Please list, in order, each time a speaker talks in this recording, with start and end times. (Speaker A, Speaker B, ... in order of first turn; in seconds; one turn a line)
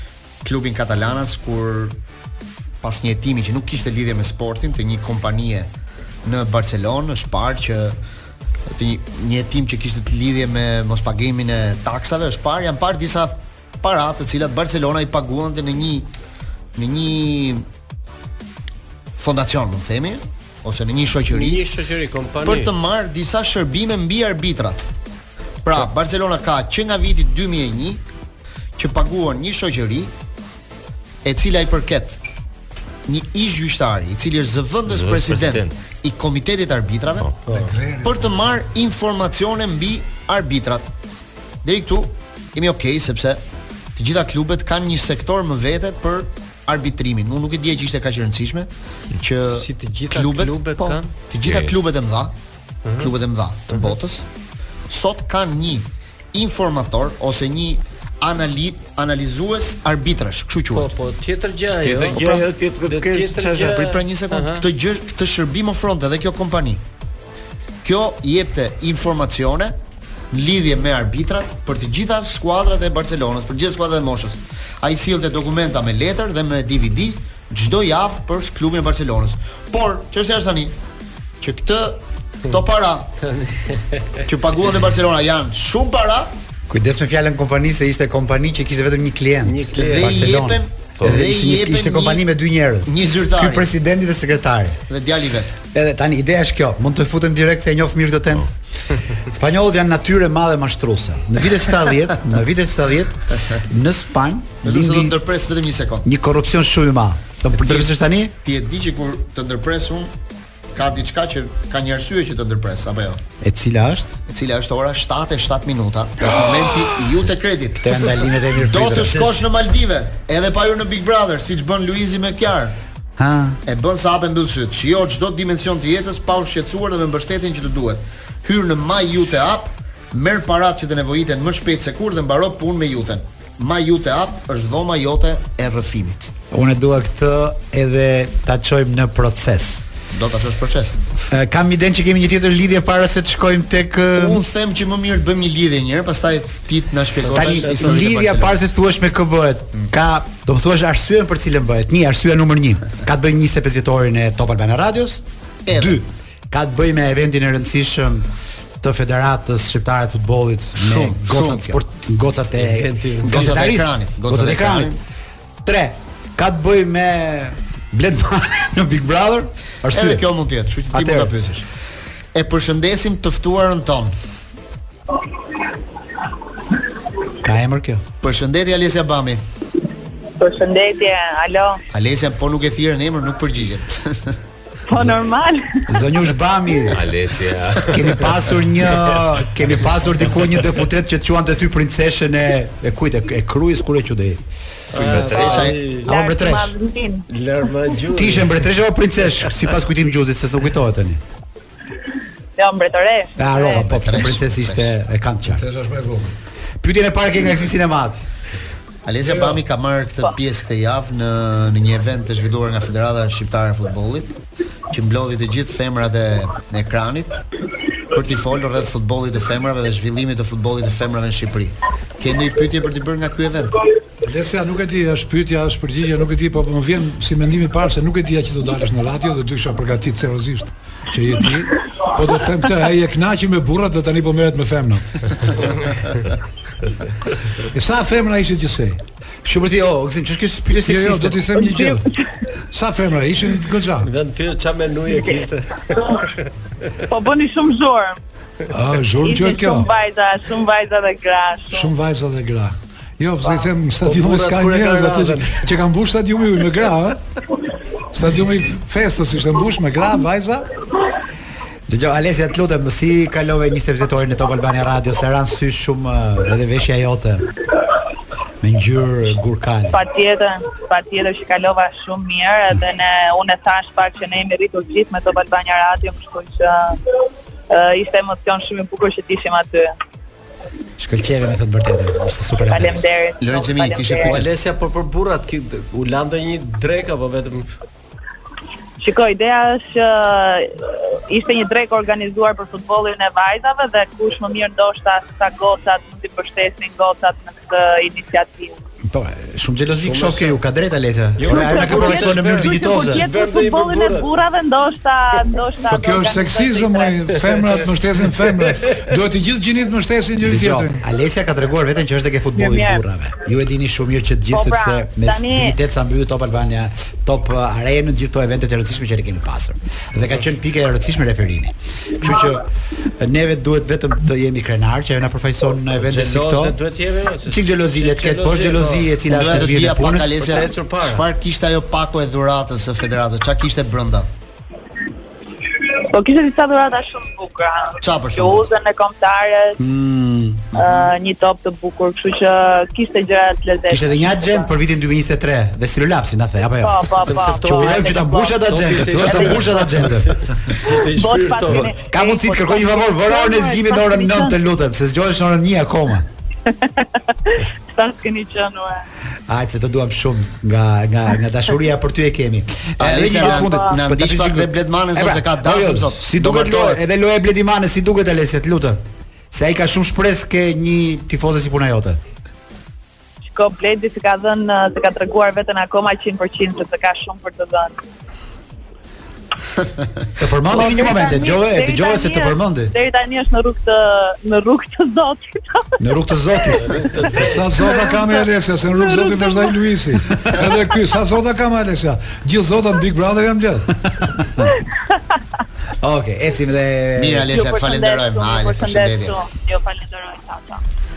Speaker A: 0.4-1.9
Speaker A: 2.8-5.7
Speaker A: 6.2-8.0
Speaker A: 8.7-16.1
Speaker A: 16.8-17.6
Speaker A: 19.2-21.6
Speaker B: 21.3-22.7
Speaker A: 22.4-24.9
Speaker A: 25.6-28.0
Speaker A: 28.8-30.1
Speaker A: 31.2-32.2
Speaker A: 33.0-37.3
Speaker C: 34.9-35.8
Speaker D: 37.5-38.4
Speaker A: 38.0-40.9
Speaker A: 41.6-43.4
Speaker A: 44.0-52.3
Speaker B: 49.5-51.1
Speaker C: 51.4-51.7
Speaker A: 53.0-54.2
Speaker B: 53.7-53.9
Speaker A: 54.9-60.9
Speaker B: 60.7-64.7
Speaker C: 61.8-63.7
Speaker A: 63.6-66.8
Speaker A: 67.8-69.8
Speaker A: 70.3-80.7
Speaker A: 81.4-83.1
Speaker B: 83.2-84.2
Speaker A: 84.2-86.3
Speaker E: 86.7-94.8
Speaker B: 89.4-90.4
Speaker A: 89.7-92.2
Speaker A: 92.8-93.7
Speaker A: 94.9-95.6
Speaker E: 95.7-98.5
Speaker E: 99.2-105.2
Speaker A: 103.3-103.6
Speaker A: 104.6-106.0
Speaker E: 106.0-108.3
Speaker A: 107.5-107.9
Speaker A: 108.4-110.1
Speaker A: 110.7-113.2
Speaker E: 113.4-114.2
Speaker A: 114.3-122.7
Speaker E: 117.8-119.5
Speaker E: 123.2-123.6
Speaker A: 123.7-136.3
Speaker E: 136.5-139.8
Speaker A: 140.1-141.0
Speaker E: 141.3-144.4
Speaker A: 144.1-148.7
Speaker B: 147.2-148.0
Speaker E: 147.3-158.3
Speaker A: 155.7-155.9
Speaker E: 158.8-165.0
Speaker A: 160.8-161.8
Speaker B: 162.6-163.6
Speaker A: 163.2-165.0
Speaker E: 165.6-170.2
Speaker A: 169.9-171.6
Speaker E: 170.9-171.3
Speaker A: 172.3-174.1
Speaker E: 177.4-178.0
Speaker A: 178.2-179.4
Speaker F: 180.4-181.8
Speaker A: 181.9-184.4
Speaker F: 184.9-185.9
Speaker E: 185.9-187.0
Speaker C: 186.9-189.3
Speaker E: 187.9-194.4
Speaker B: 194.9-196.1
Speaker C: 194.9-195.7
Speaker A: 195.1-195.8
Speaker F: 195.7-197.2
Speaker E: 196.1-196.7
Speaker B: 197.3-198.6
Speaker E: 198.1-201.2
Speaker F: 202.6-204.2
Speaker E: 203.4-205.6
Speaker A: 203.9-204.9
Speaker D: 205.4-206.3
Speaker E: 206.8-208.2
Speaker A: 209.0-214.3
Speaker A: 214.9-217.4
Speaker A: 218.0-223.8
Speaker D: 224.2-236.2
Speaker D: 237.5-239.0
Speaker E: 239.4-241.6
Speaker D: 240.8-242.1
Speaker F: 241.6-242.0
Speaker D: 242.7-244.1
Speaker B: 244.0-246.4
Speaker F: 247.1-248.2
Speaker D: 248.7-249.9
Speaker F: 249.2-251.9
Speaker D: 251.7-257.2
Speaker B: 253.4-255.7
Speaker D: 258.1-260.6
Speaker E: 261.9-267.5
Speaker E: 268.6-270.0
Speaker F: 269.9-277.0
Speaker F: 277.7-279.9
Speaker E: 281.0-283.0
Speaker F: 282.7-284.4
Speaker A: 283.4-284.5
Speaker B: 284.2-287.7
Speaker F: 289.0-298.8
Speaker E: 299.1-303.2
Speaker B: 300.0-300.6
Speaker B: 301.4-304.3
Speaker F: 301.5-307.3
Speaker D: 305.9-311.0
Speaker E: 310.4-326.8
Speaker F: 312.6-313.0
Speaker F: 314.5-315.8
Speaker B: 325.9-329.1
Speaker E: 327.4-330.5
Speaker A: 329.3-334.3
Speaker B: 330.4-331.2
Speaker F: 336.1-339.8
Speaker A: 338.0-338.7
Speaker E: 339.8-341.0
Speaker F: 340.7-344.7
Speaker E: 343.9-350.4
Speaker F: 346.8-348.6
Speaker B: 347.2-351.9
Speaker F: 349.2-349.6
Speaker F: 350.8-354.6
Speaker E: 351.7-356.3
Speaker F: 356.7-359.0
Speaker E: 359.5-372.2
Speaker A: 363.0-367.0
Speaker F: 363.4-363.9
Speaker F: 373.4-378.0
Speaker E: 380.4-382.9
Speaker F: 380.7-385.9
Speaker E: 386.0-387.0
Speaker F: 386.5-386.8
Speaker B: 386.9-387.6
Speaker D: 387.3-394.0
Speaker F: 387.9-388.3
Speaker F: 388.9-389.8
Speaker E: 394.2-394.7
Speaker E: 396.0-397.5
Speaker A: 397.1-399.3
Speaker F: 397.5-400.8